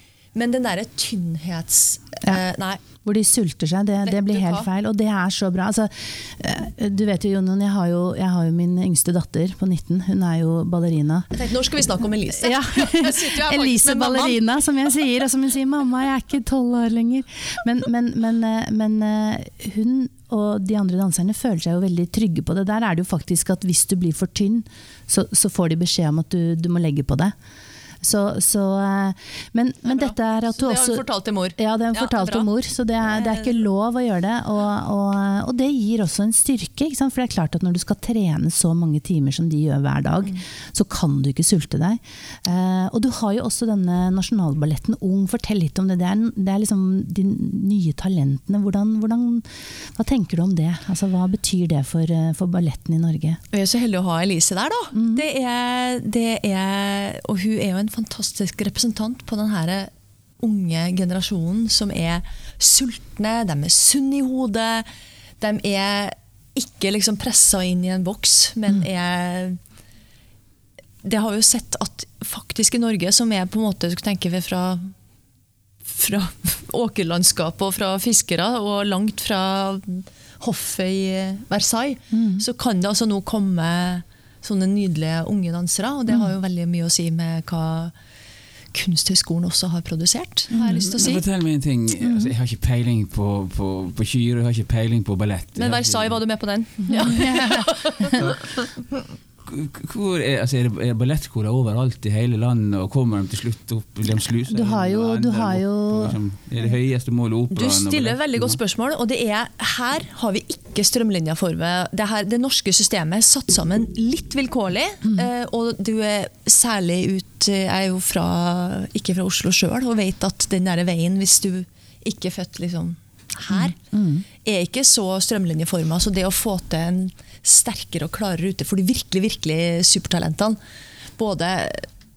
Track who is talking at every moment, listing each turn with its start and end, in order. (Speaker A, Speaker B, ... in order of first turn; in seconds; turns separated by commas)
Speaker A: 0.3-2.8, Speaker B: 3.0-11.3, Speaker A: 4.0-4.7, Speaker A: 11.3-14.4, Speaker B: 12.3-27.3, Speaker B: 28.0-53.4, Speaker A: 29.9-32.5, Speaker A: 53.5-64.9, Speaker B: 54.9-55.2, Speaker A: 65.4-69.6, Speaker A: 71.0-74.9, Speaker A: 75.8-87.9, Speaker B: 82.1-82.4, Speaker A: 88.7-91.2, Speaker B: 90.5-90.8, Speaker C: 90.6-96.2, Speaker B: 92.0-92.3, Speaker A: 95.5-98.6, Speaker B: 96.9-98.2, Speaker C: 98.1-98.7, Speaker C: 99.5-108.6, Speaker B: 104.5-106.2, Speaker A: 107.5-123.8, Speaker B: 123.5-124.2, Speaker A: 124.4-130.6, Speaker A: 131.2-131.9